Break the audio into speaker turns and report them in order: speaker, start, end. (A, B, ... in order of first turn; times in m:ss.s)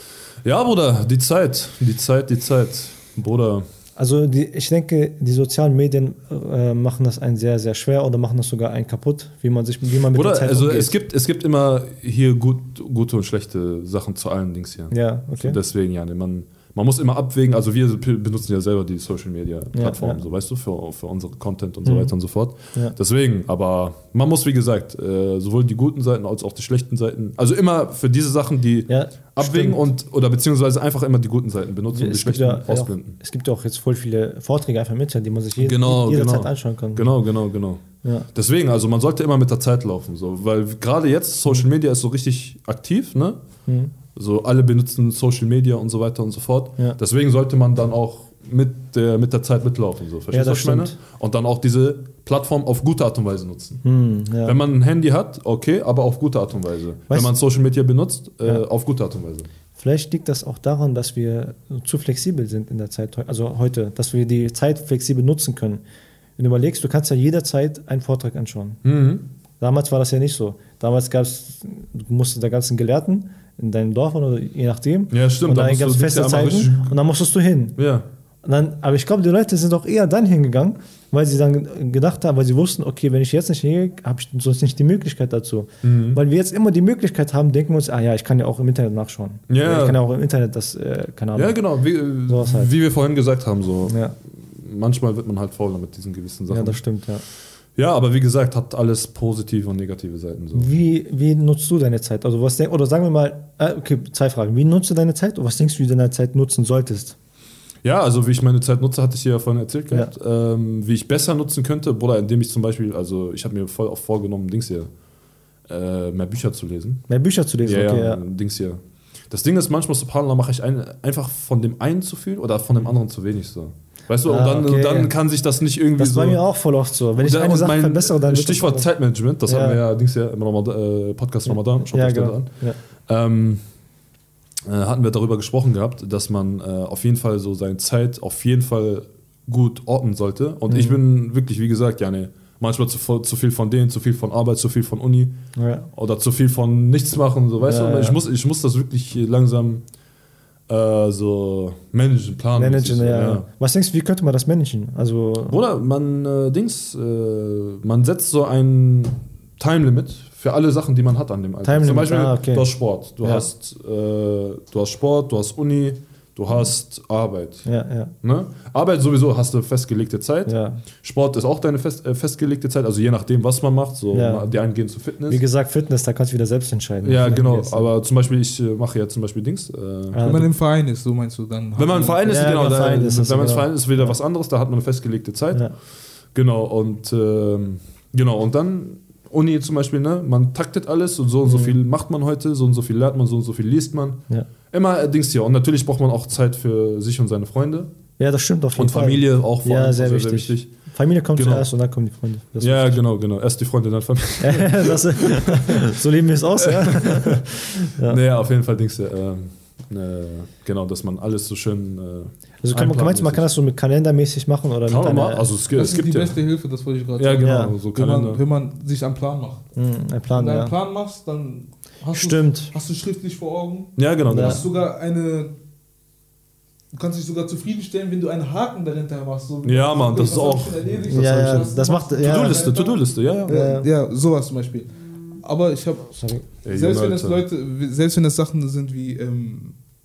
0:00.4-0:03.6 A
0:04.0-0:11.0 B
0:10.1-0:33.2 A
0:14.9-0:15.6 B
0:19.7-0:20.2 B
0:21.8-0:22.1 B
0:28.9-0:29.8 B
0:31.9-0:37.1 B
0:35.6-0:43.4 A
0:38.0-0:38.3 B
0:43.6-0:43.9 B
0:44.1-0:53.8 A
0:50.3-0:50.9 B
0:53.8-0:54.6 B
0:54.4-0:59.5 A
0:59.8-1:05.8 B
1:06.4-1:08.8 B
1:08.8-1:09.2 A
1:09.6-1:17.8 B
1:15.1-1:16.9 A
1:17.8-1:18.0 A
1:18.4-1:31.6 B
1:25.8-1:26.2 A
1:29.5-1:30.0 A
1:31.4-1:36.8 A
1:32.3-1:32.7 B
1:33.8-1:34.2 B
1:36.5-1:37.2 B
1:37.7-1:40.7 A
1:40.5-1:47.2 B
1:47.8-1:54.9 A
1:55.7-1:57.0 A
1:57.1-1:58.2 B
1:57.6-2:06.4 A
2:04.2-2:05.1 B
2:06.0-2:08.9 B
2:07.2-2:13.6 A
2:09.4-2:09.8 B
2:11.4-2:12.8 B
2:14.7-2:29.8 A
2:20.7-2:21.0 B
2:25.5-2:25.9 B
2:27.6-2:28.2 B
2:30.7-2:33.4 A
2:32.6-2:35.6 B
2:35.5-2:47.7 A
2:41.6-2:43.5 B
2:47.6-2:48.1 B
2:48.2-2:55.4 A
2:50.5-2:50.8 B
2:54.1-2:54.5 B
2:55.3-2:57.9 B
2:57.0-3:00.2 A
3:00.1-3:00.5 B
3:00.2-3:02.2 C
3:01.8-3:05.7 A
3:02.2-3:04.2 B
3:06.3-3:17.9 A
3:11.4-3:11.8 B
3:18.2-3:23.0 B
3:18.8-3:20.7 A
3:21.3-3:21.7 A
3:22.6-3:25.9 A
3:24.4-3:28.2 B
3:26.6-3:33.5 A
3:32.6-3:35.5 B
3:34.8-3:36.4 A
3:35.7-3:39.6 C
3:37.2-3:38.4 A
3:37.4-3:37.7 B
3:39.8-3:40.7 B
3:40.3-3:45.5 C
3:42.1-3:42.7 B
3:44.0-3:44.6 A
3:44.3-3:44.6 B
3:46.9-3:59.8 C
3:49.6-3:53.6 A
3:51.1-3:52.7 B
3:53.5-3:53.9 B
3:56.2-3:56.4 B
3:56.6-3:57.4 A